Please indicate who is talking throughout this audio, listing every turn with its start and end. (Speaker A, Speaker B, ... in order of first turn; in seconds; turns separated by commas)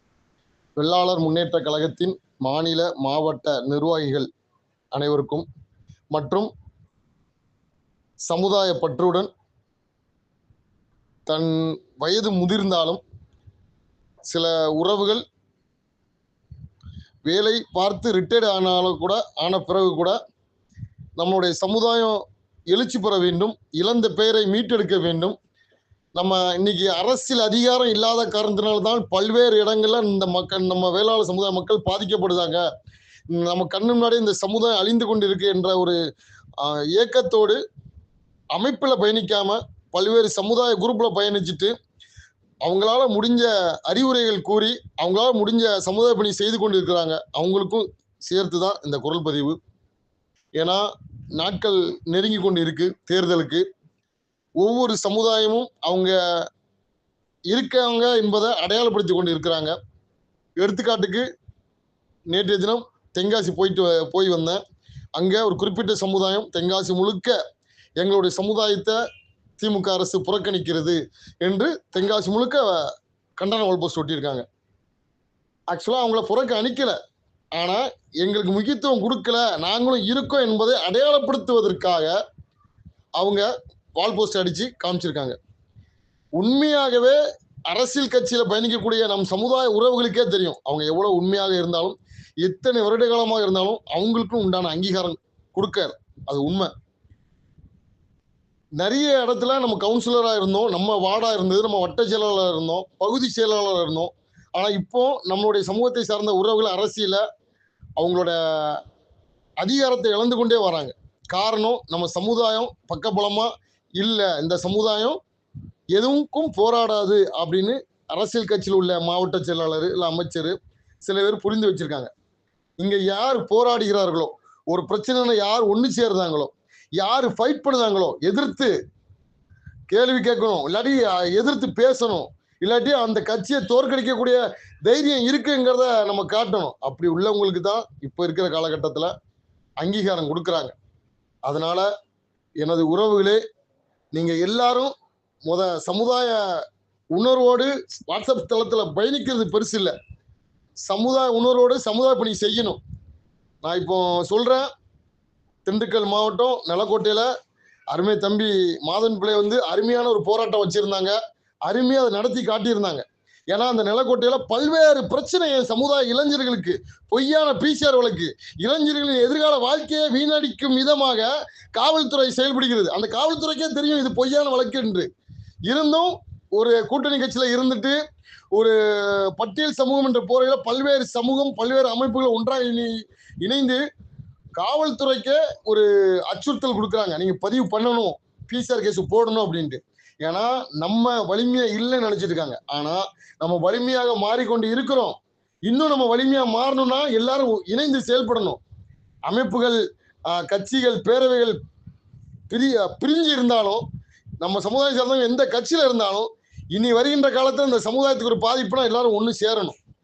Speaker A: 0.8-4.3, Speaker A: 4.9-5.5, Speaker A: 6.1-6.5, Speaker A: 8.3-9.3, Speaker A: 11.3-13.0, Speaker A: 14.3-15.2, Speaker A: 17.2-20.2, Speaker A: 21.2-25.4, Speaker A: 26.1-32.6, Speaker A: 33.3-36.0, Speaker A: 36.6-37.6, Speaker A: 38.5-41.7, Speaker A: 42.6-49.6, Speaker A: 50.6-50.9, Speaker A: 51.4-53.7, Speaker A: 54.6-56.5, Speaker A: 57.5-59.7, Speaker A: 60.6-61.2, Speaker A: 62.3-64.6, Speaker A: 65.2-67.4, Speaker A: 68.0-69.0, Speaker A: 69.6-72.9, Speaker A: 73.4-74.4, Speaker A: 75.7-77.0, Speaker A: 77.6-82.1, Speaker A: 83.2-85.4, Speaker A: 86.4-87.2, Speaker A: 87.7-96.7, Speaker A: 98.8-107.2, Speaker A: 108.0-108.8, Speaker A: 109.6-115.2, Speaker A: 115.9-122.1, Speaker A: 122.8-128.7, Speaker A: 129.9-139.1, Speaker A: 139.8-140.7, Speaker A: 141.5-141.9, Speaker A: 142.6-143.4, Speaker A: 144.1-144.9, Speaker A: 145.5-149.9, Speaker A: 150.8-152.8, Speaker A: 153.6-154.7, Speaker A: 155.7-157.3, Speaker A: 157.9-175.1, Speaker A: 175.7-178.0, Speaker A: 178.5-183.8, Speaker A: 184.6-198.6, Speaker A: 199.3-201.6, Speaker A: 202.5-203.8, Speaker A: 204.4-209.8